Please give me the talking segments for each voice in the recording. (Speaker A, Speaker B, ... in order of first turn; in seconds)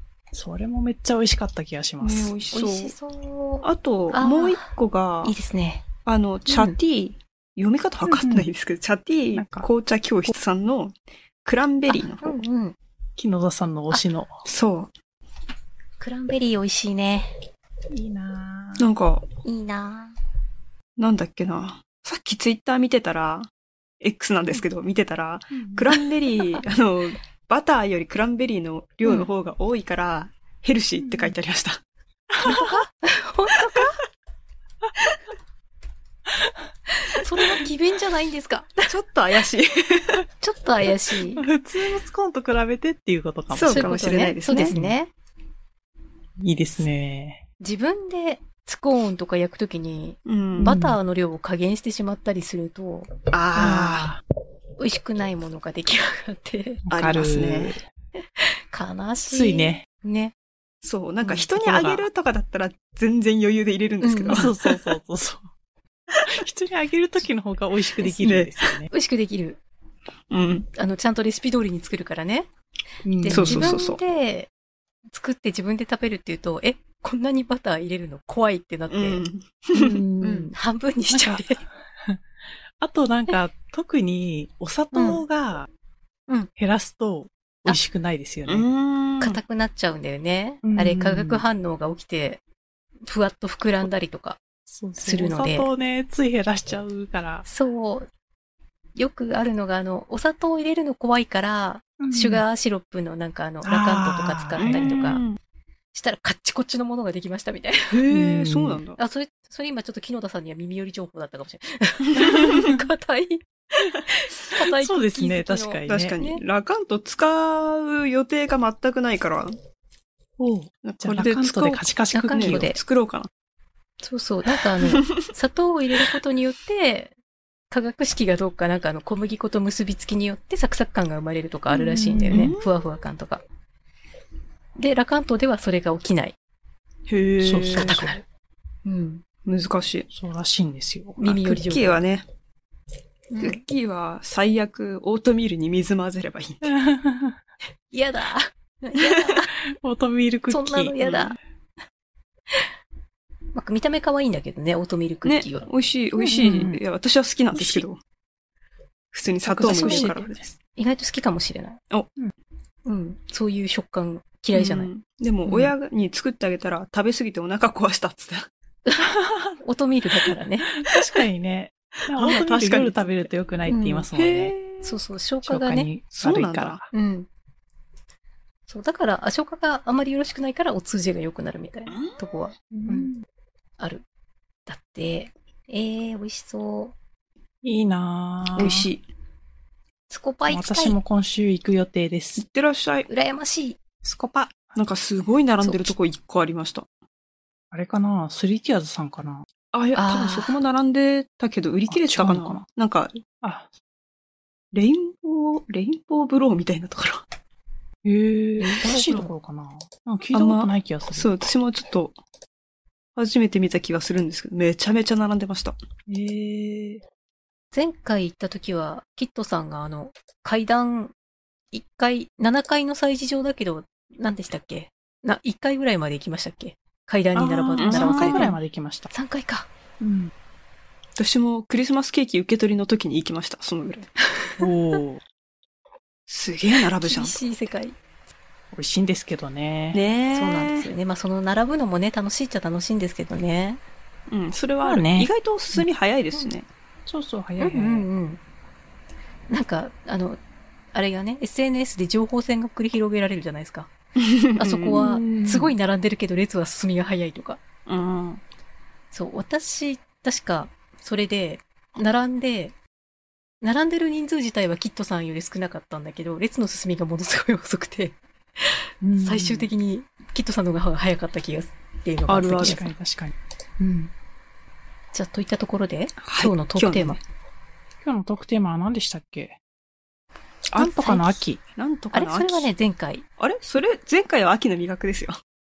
Speaker A: 0.3-2.3, 8.0-8.5, 9.3-9.7, 13.2-14.4, 17.9-18.9, 25.6-25.9, 31.0-31.3, 32.4-32.8, 41.4-43.9, 44.6-45.0, 46.4-47.4, 50.6-51.0, 53.5-54.2, 56.9-57.8, 59.3-59.9, 61.2-62.1, 64.3-65.5, 66.2-68.9, 73.0-73.8, 79.7-80.5, 81.1-82.2, 82.8-85.7, 86.6-88.7, 90.6-91.4, 94.7-97.5, 102.0-102.4, 103.6-105.1, 107.9-108.8, 114.6-116.2, 120.4-122.7, 131.7-132.5, 137.4-138.2, 140.1-141.3, 146.6-147.4, 149.7-151.2, 156.2-156.8, 157.5-157.8, 159.4-160.5, 169.0-169.6, 170.7-174.5, 175.4-176.9, 182.7-183.2, 187.6-188.9, 190.5-192.4, 194.0-194.7, 197.7-199.4, 201.9-202.6, 203.4-203.7, 208.0-211.3, 216.1-217.0, 227.3-229.1, 230.0-230.3, 234.6-235.2, 238.7-240.0, 244.8-245.9, 247.1-248.1, 254.9-255.8, 269.0-269.7, 272.6-273.4, 278.0-279.6, 280.8-281.6
Speaker B: 2.0-3.0, 3.6-5.3, 6.0-12.4, 14.4-14.9, 18.8-19.3, 21.0-23.5, 24.0-31.8, 38.9-40.2, 43.5-44.8, 50.2-50.8, 53.3-54.1, 56.9-57.8, 60.8-64.8, 68.0-68.8, 70.3-70.7, 73.3-74.0, 78.9-80.0, 88.5-89.4, 104.6-105.4, 108.1-109.0, 115.9-119.5, 120.8-123.3, 124.8-125.3, 132.3-132.7, 137.1-138.0, 139.4-140.1, 141.4-142.2, 143.4-146.7, 155.2-158.0, 159.1-160.4, 164.5-168.5, 172.1-173.3, 174.1-175.0, 176.2-176.8, 181.9-182.3, 188.6-189.0, 192.4-193.1, 194.8-196.9, 199.7-203.2, 204.7-207.2, 210.3-212.2, 213.2-215.8, 227.8-228.5, 231.2-234.1, 236.3-237.4, 239.9-240.9, 244.3-246.7, 254.2-255.1, 257.9-258.4, 272.3-272.9, 276.2-277.2, 280.7-282.7, 283.4-285.4
Speaker C: 2.5-4.7, 5.2-5.8, 6.5-6.8, 11.9-12.8, 16.0-17.3, 19.4-20.1, 32.4-34.0, 37.0-38.9, 40.4-41.5, 43.7-45.1, 47.6-53.1, 54.8-56.8, 58.4-60.3, 64.0-64.5, 68.9-69.6, 70.7-72.5, 73.2-74.5, 75.1-79.2, 80.2-81.6, 84.9-85.2, 89.2-92.4, 93.1-94.4, 95.0-95.7, 97.5-98.1, 99.0-105.2, 105.9-108.0, 109.0-113.5, 114.0-116.4, 122.1-122.8, 124.0-127.1, 127.7-133.4, 134.8-136.4, 137.7-138.2, 138.8-139.2, 141.2-142.0, 143.3-143.6, 147.9-149.5, 150.5-151.4, 153.5-155.7, 156.4-156.8, 159.6-161.8, 162.9-164.9, 169.6-170.8, 173.7-174.1, 174.8-175.9, 176.9-177.3, 178.7-183.1, 183.8-184.0, 184.7-186.9, 190.1-191.0, 193.1-193.8, 195.6-195.9, 199.9-200.6, 208.6-209.3, 217.7-221.1, 221.7-228.6, 229.1-229.7, 234.4-234.7, 237.0-237.9, 240.3-243.8, 247.6-248.4, 249.5-250.4, 250.9-253.9, 254.6-257.6, 259.1-262.8, 263.6-268.2, 269.2-272.9, 273.8-274.1, 275.1-277.2, 280.8-281.4, 282.1-283.2